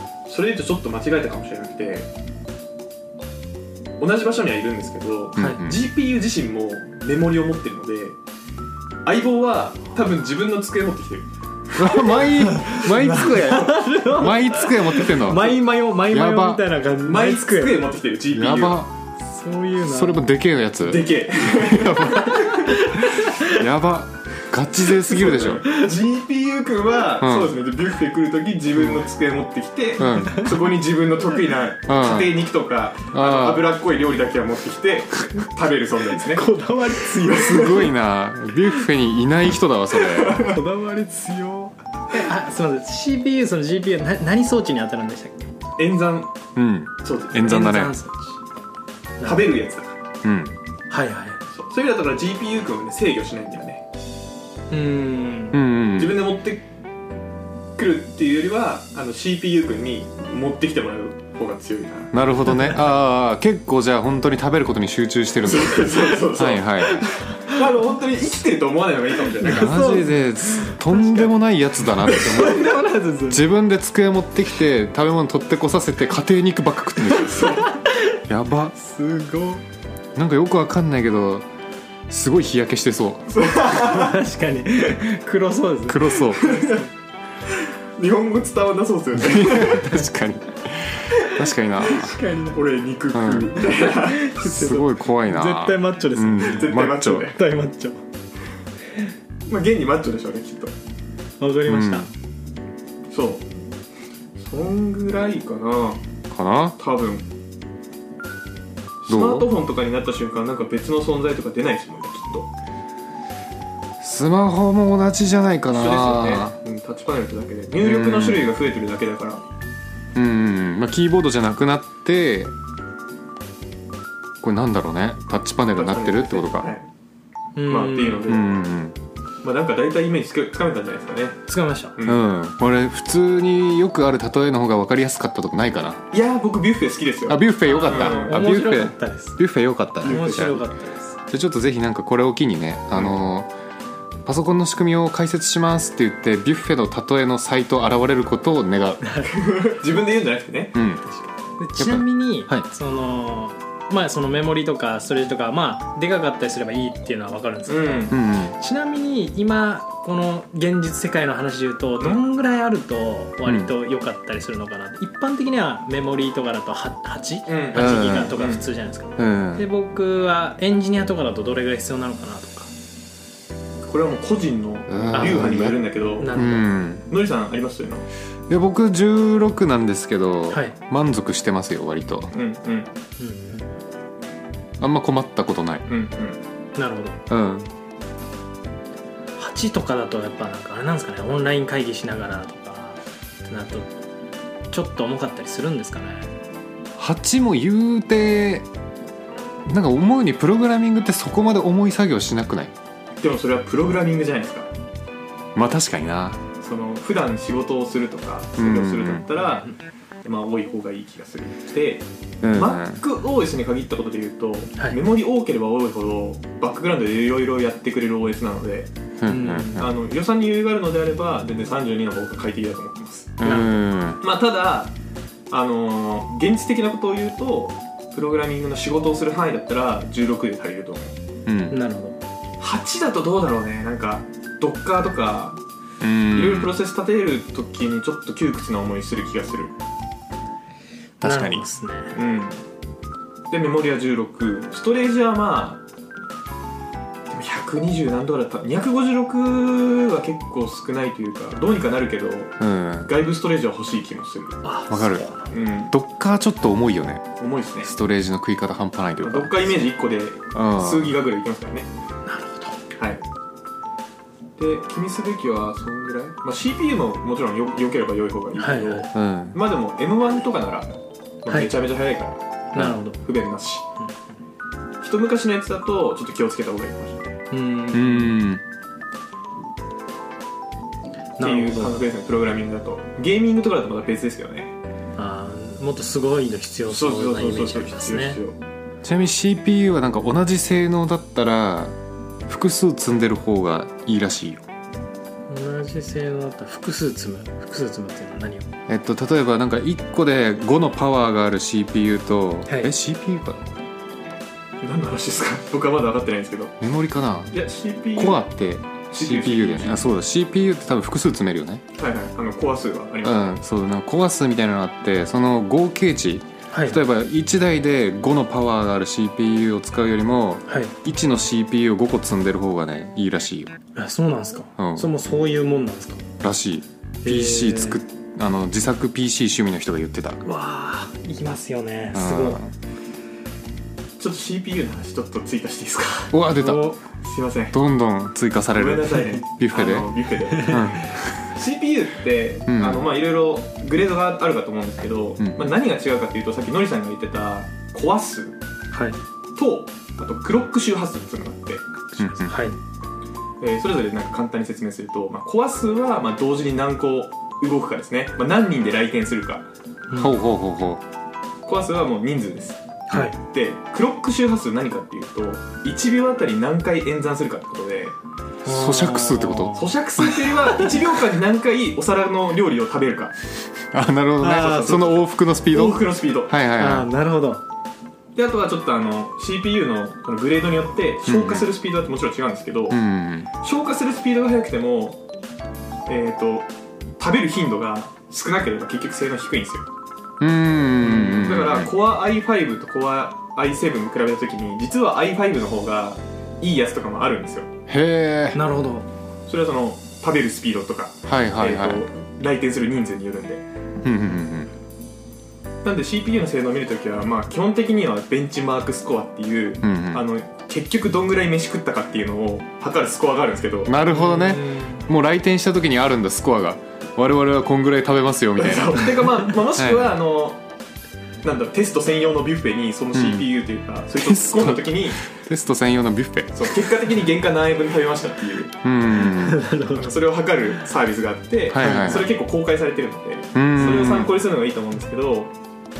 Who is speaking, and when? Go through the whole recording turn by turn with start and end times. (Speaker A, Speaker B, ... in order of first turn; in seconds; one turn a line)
Speaker A: 0.2-2.1
Speaker A: 4.0-8.2
Speaker B: 5.3-5.8
Speaker A: 9.0-11.3
Speaker B: 11.7-16.6
Speaker C: 12.2-17.9
Speaker A: 17.0-18.8
Speaker B: 18.3-18.9
Speaker C: 19.3-20.2
Speaker B: 19.8-25.6
Speaker A: 20.8-22.7
Speaker C: 22.2-23.6
Speaker A: 25.0-36.4
Speaker B: 27.2-27.5
Speaker B: 30.0-30.5
Speaker C: 30.0-30.5
Speaker B: 31.9-32.4
Speaker B: 33.1-33.7
Speaker C: 36.2-37.9
Speaker A: 37.0-37.9
Speaker B: 37.3-40.5
Speaker A: 40.1-40.6
Speaker C: 40.5-45.5
Speaker A: 45.8-46.3
Speaker B: 46.5-47.9
Speaker A: 47.0-47.6
Speaker C: 47.4-48.4
Speaker C: 49.2-49.5
Speaker A: 49.2-50.0
Speaker B: 50.2-50.5
Speaker C: 50.9-51.4
Speaker A: 51.5-53.8
Speaker C: 54.7-55.6
Speaker B: 55.5-56.2
Speaker A: 56.0-56.7
Speaker A: 57.8-62.1
Speaker B: 62.1-67.0
Speaker A: 65.4-69.8
Speaker C: 66.9-67.5
Speaker C: 69.4-71.3
Speaker B: 69.4-77.6
Speaker C: 72.0-73.4
Speaker A: 77.3-77.7
Speaker C: 77.3-78.2
Speaker B: 78.3-78.7
Speaker C: 78.8-79.6
Speaker B: 80.1-81.5
Speaker B: 82.1-83.3
Speaker A: 83.3-84.2
Speaker C: 83.7-86.8
Speaker B: 85.9-86.4
Speaker A: 86.4-86.8
Speaker A: 87.5-89.9
Speaker B: 89.2-92.2
Speaker C: 91.2-92.6
Speaker A: 92.5-94.3
Speaker B: 93.1-93.6
Speaker C: 93.6-98.0
Speaker B: 94.3-97.3
Speaker A: 96.4-97.4
Speaker A: 99.5-100.7
Speaker C: 101.4-102.1
Speaker B: 101.7-102.1
Speaker A: 103.1-103.5
Speaker A: 104.4-106.0
Speaker B: 106.3-106.8
Speaker A: 106.8-107.2
Speaker A: 109.0-112.5
Speaker B: 109.1-109.5
Speaker B: 114.0-116.6
Speaker A: 115.7-119.4
Speaker B: 117.8-118.5
Speaker B: 120.1-122.5
Speaker B: 124.4-126.7
Speaker A: 125.7-126.9
Speaker C: 127.5-128.3
Speaker A: 127.7-128.5
Speaker B: 128.3-128.9
Speaker A: 129.4-131.4
Speaker C: 131.5-131.9
Speaker A: 131.9-132.2
Speaker B: 132.0-136.0
Speaker A: 136.1-138.4
Speaker B: 137.3-140.6
Speaker C: 137.6-139.4
Speaker A: 140.0-140.6
Speaker C: 140.0-141.2
Speaker B: 141.3-143.5
Speaker B: 144.2-149.0
Speaker C: 149.0-149.3
Speaker A: 149.2-150.8
Speaker B: 150.7-151.0
Speaker C: 151.6-172.7
Speaker B: 151.8-152.7
Speaker A: 157.7-158.2
Speaker B: 158.1-158.6
Speaker B: 163.4-163.7
Speaker A: 167.5-168.6
Speaker B: 167.7-168.4
Speaker B: 169.2-169.7
Speaker A: 173.8-176.4
Speaker B: 174.9-175.8
Speaker C: 175.1-176.7
Speaker B: 176.3-177.1
Speaker A: 177.1-178.1
Speaker B: 178.5-182.3
Speaker C: 180.5-180.8
Speaker A: 182.3-182.9
Speaker C: 183.2-183.7
Speaker B: 184.8-185.8
Speaker A: 185.9-186.4
Speaker C: 186.7-187.2
Speaker B: 187.3-187.7
Speaker C: 189.4-193.9
Speaker C: 194.7-196.3
Speaker B: 197.0-198.7
Speaker B: 199.7-202.7
Speaker A: 203.2-204.7
Speaker B: 205.5-206.4
Speaker A: 206.6-218.9
Speaker B: 208.6-209.2
Speaker B: 212.4-213.0
Speaker B: 219.2-219.9
Speaker C: 219.2-219.9
Speaker A: 219.7-223.4
Speaker B: 223.4-224.2
Speaker C: 223.4-223.8
Speaker A: 224.2-224.9
Speaker A: 225.5-231.2
Speaker B: 231.4-231.8
Speaker C: 231.7-232.2
Speaker A: 232.6-235.6
Speaker B: 236.0-236.8
Speaker A: 236.3-239.7
Speaker C: 241.2-242.1
Speaker B: 241.2-241.6
Speaker A: 242.1-242.6
Speaker A: 243.5-245.8
Speaker A: 247.3-254.6
Speaker B: 252.6-253.1
Speaker C: 254.6-255.5
Speaker B: 254.9-255.3
Speaker A: 255.5-255.9
Speaker B: 255.9-257.3
Speaker A: 257.4-257.9
Speaker B: 257.8-259.8
Speaker A: 259.2-261.9
Speaker B: 260.5-261.1
Speaker C: 262.2-262.8
Speaker A: 262.9-263.2
Speaker A: 264.6-272.4
Speaker C: 268.6-269.1
Speaker B: 269.1-269.6
Speaker C: 271.5-271.7
Speaker C: 272.7-273.2
Speaker B: 272.7-273.0
Speaker A: 273.2-273.9
Speaker A: 275.0-277.3
Speaker C: 277.5-278.3
Speaker B: 277.9-278.6
Speaker C: 281.4-282.0
Speaker A: 281.4-284.7
Speaker C: 285.1-288.4
Speaker A: 286.9-288.6
Speaker B: 289.0-291.9
Speaker B: 292.5-294.6
Speaker C: 295.5-298.7
Speaker B: 298.9-303.7
Speaker A: 304.8-306.7
Speaker B: 306.8-307.6
Speaker A: 307.5-308.5
Speaker B: 308.1-311.8
Speaker A: 309.1-310.1
Speaker A: 312.0-313.5
Speaker B: 313.2-323.7
Speaker C: 316.7-317.0
Speaker C: 320.7-320.9
Speaker C: 323.9-326.2
Speaker B: 324.8-325.1
Speaker B: 326.4-330.4
Speaker C: 327.2-328.0
Speaker C: 330.4-332.6
Speaker B: 332.1-332.7
Speaker A: 334.2-336.4
Speaker B: 336.3-336.9
Speaker C: 336.5-337.0
Speaker A: 337.2-337.8
Speaker B: 337.7-340.1
Speaker A: 338.7-340.9
Speaker C: 340.5-341.0
Speaker B: 340.7-341.4
Speaker A: 341.5-348.6
Speaker B: 342.7-343.1
Speaker B: 345.4-345.7
Speaker C: 348.9-349.2
Speaker A: 349.6-352.4
Speaker B: 352.2-352.6
Speaker C: 352.4-352.8
Speaker A: 353.6-359.6
Speaker C: 360.1-360.4
Speaker B: 360.1-361.0
Speaker A: 361.6-362.8
Speaker C: 363.1-363.4
Speaker A: 363.4-368.1
Speaker B: 368.6-369.8
Speaker C: 368.6-371.0
Speaker A: 369.7-373.3
Speaker B: 373.9-377.1
Speaker C: 374.4-375.1
Speaker A: 374.6-375.1
Speaker A: 375.7-376.5
Speaker C: 376.7-377.6
Speaker A: 378.3-383.0
Speaker B: 381.2-381.7
Speaker B: 382.9-383.5
Speaker A: 383.6-385.2
Speaker A: 386.1-386.7
Speaker A: 387.2-389.9
Speaker B: 390.4-391.9
Speaker C: 391.0-391.5
Speaker A: 391.4-397.7
Speaker B: 397.9-398.6
Speaker C: 398.5-399.1
Speaker A: 399.5-403.6
Speaker B: 401.2-402.1
Speaker B: 404.0-404.7
Speaker A: 405.8-413.9
Speaker B: 409.8-410.2
Speaker B: 413.9-419.1
Speaker C: 414.1-415.1
Speaker A: 418.6-420.6
Speaker B: 419.8-420.1
Speaker A: 421.4-425.2
Speaker B: 423.1-423.5
Speaker B: 424.1-426.8
Speaker A: 426.5-428.7
Speaker B: 428.8-429.6
Speaker C: 429.2-430.2
Speaker A: 429.9-435.5
Speaker B: 431.7-432.3
Speaker C: 431.8-432.3
Speaker B: 433.5-434.3
Speaker C: 433.8-434.3